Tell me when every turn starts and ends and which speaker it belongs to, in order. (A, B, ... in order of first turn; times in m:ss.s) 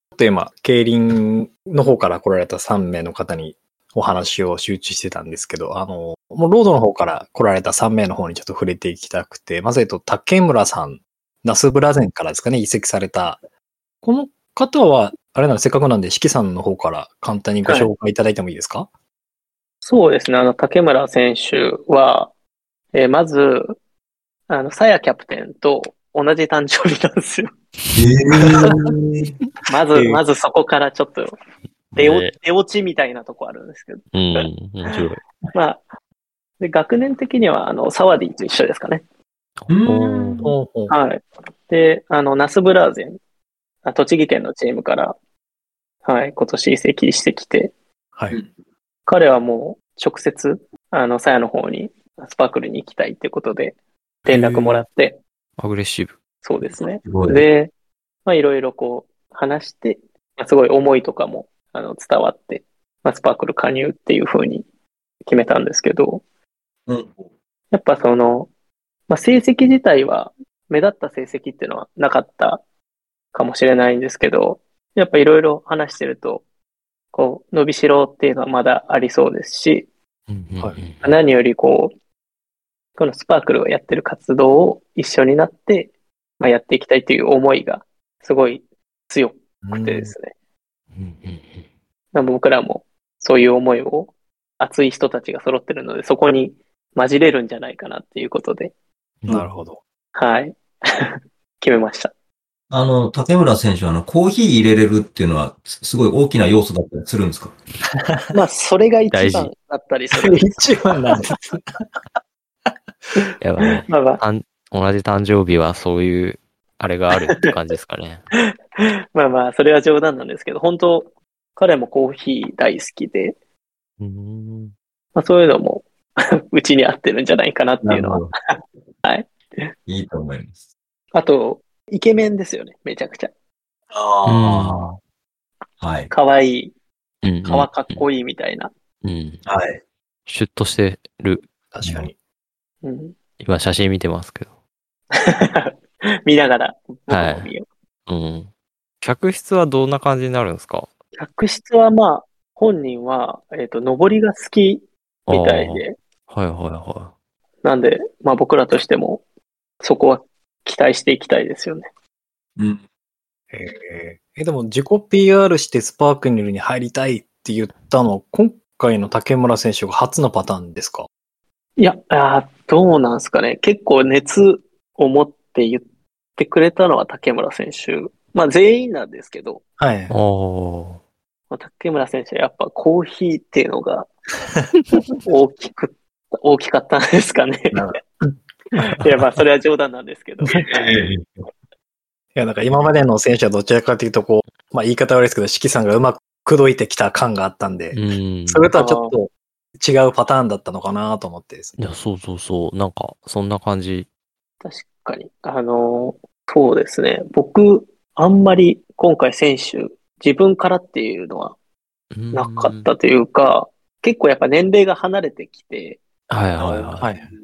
0:00.1-0:13.4 A
0:14.0-0:18.9 A
0:17.7-0:17.9 B
0:19.8-0:22.3 B
0:22.9-0:23.8 B
0:24.5-0:27.5 B
0:27.9-0:29.1 C
0:29.7-0:31.3 B
0:31.9-0:32.4 D
0:32.0-0:34.4 B
0:34.1-0:35.2 D
0:35.5-0:35.8 B
0:36.6-0:39.0 B
0:39.6-0:40.5 D
0:39.7-0:40.5 C
0:40.4-0:41.0 A
0:40.9-0:43.2 B
0:43.8-0:45.2 B
0:46.0-0:47.7 B
0:49.1-0:55.2 B
0:54.3-0:54.9 D
0:55.6-0:56.2 D
0:56.4-0:57.7 B
0:57.0-0:57.4 C
0:58.3-1:04.6 B
1:05.3-1:06.2 B
1:06.9-1:07.3 C
1:07.7-1:08.5 B
1:09.1-1:12.6 B
1:13.3-1:16.4 B
1:17.1-1:19.9 B
1:20.3-1:21.2 D
1:21.0-1:21.9 B
1:23.0-1:30.3 B
1:29.6-1:30.1 A
1:30.9-1:31.7 D
1:32.1-1:38.7 B
1:39.3-1:39.8 A
1:40.2-1:42.1 B
1:42.7-1:47.6 C
1:48.3-1:50.6 B
1:49.1-1:49.5 D
1:50.2-1:51.9 A
1:53.4-1:58.2 D
1:53.7-1:54.2 B
1:58.8-2:03.4 B
2:04.0-2:04.7 D
2:05.2-2:08.3 B
2:07.8-2:08.3 C
2:09.0-2:09.7 B
2:09.9-2:10.7 C
2:11.1-2:13.3 B
2:13.9-2:14.9 C
2:14.2-2:15.0 D
2:15.8-2:16.1 C
2:16.1-2:16.7 B
2:17.2-2:18.0 D
2:17.4-2:18.7 B
2:19.0-2:19.4 D
2:19.4-2:19.8 C
2:20.3-2:21.5 D
2:21.7-2:22.2 A
2:22.8-2:23.2 B
2:23.4-2:24.5 D
2:25.1-2:27.7 B
2:27.1-2:27.5 D
2:28.1-2:28.5 D
2:29.0-2:30.9 D
2:31.2-2:36.0 B
2:35.3-2:37.1 D
2:37.6-2:39.2 B
2:39.8-2:41.9 B
2:42.6-2:42.8 C
2:43.5-2:51.1 A
2:51.8-2:55.8 B
2:56.4-2:59.6 B
2:59.8-3:00.2 A
3:00.1-3:01.0 D
3:01.5-3:04.1 B
3:05.1-3:07.9 B
3:08.8-3:10.9 B
3:10.7-3:11.5 C
3:12.4-3:21.8 A
3:17.9-3:18.7 D
3:18.8-3:19.1 B
3:21.8-3:24.1 D
3:24.6-3:31.6 B
3:32.1-3:32.9 D
3:32.3-3:36.0 B
3:36.3-3:37.1 D
3:36.6-3:36.9 C
3:37.0-3:37.3 A